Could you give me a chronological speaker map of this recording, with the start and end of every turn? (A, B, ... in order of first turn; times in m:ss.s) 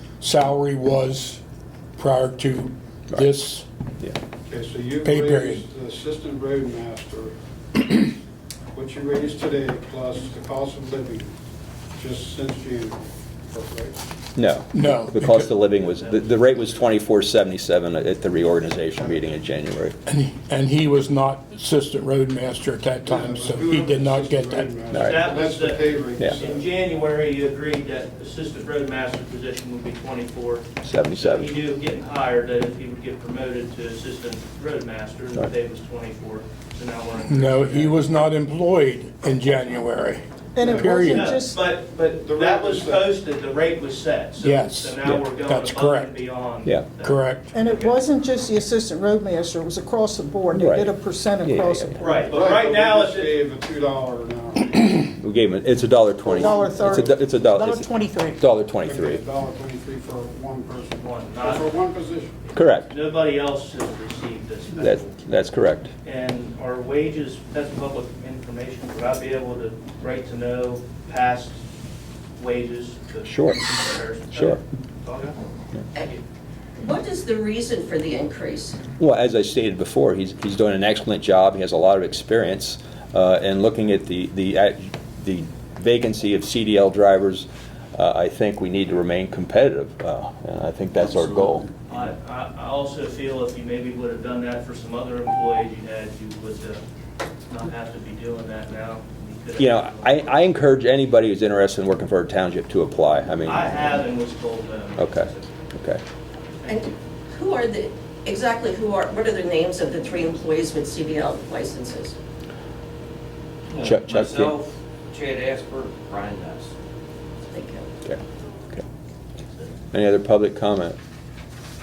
0:00.2-0:01.4 A
0:02.0-0:03.7 A
0:04.5-0:07.3 B
0:05.0-0:05.6 A
0:08.7-0:11.3 B
0:12.0-0:14.0 B
0:14.3-0:20.0 C
0:14.7-0:15.5 A
0:15.8-0:16.7 D
0:20.0-0:24.9 A
0:23.0-0:26.7 B
0:24.9-0:25.3 C
0:24.9-0:38.3 D
0:30.8-0:31.5 C
0:37.3-0:41.3 A
0:40.6-0:41.6 E
0:40.6-0:48.0 D
0:40.6-0:41.1 B
0:42.1-0:43.2 B
0:44.4-0:46.2 A
0:47.0-0:47.5 A
0:47.5-0:52.3 E
0:50.6-0:52.0 C
0:52.0-0:53.4 D
0:52.2-0:54.8 B
0:54.8-0:59.2 C
0:56.2-0:56.9 B
0:56.3-0:58.4 E
0:58.8-1:02.3 B
1:01.0-1:01.7 D
1:02.5-1:05.2 D
1:02.6-1:02.9 C
1:04.8-1:05.9 C
1:06.0-1:11.6 D
1:12.4-1:15.4 D
1:13.2-1:13.6 C
1:14.3-1:14.6 C
1:16.8-1:18.8 F
1:19.0-1:31.7 C
1:31.9-1:36.8 D
1:37.4-1:40.5 D
1:39.6-1:44.1 C
1:43.4-1:45.5 D
1:45.0-1:46.0 C
1:46.5-1:47.0 D
1:46.7-1:52.2 F
1:53.7-1:56.7 G
1:53.8-1:54.6 C
1:57.5-1:57.9 F
1:58.0-1:58.8 C
1:59.9-2:01.0 C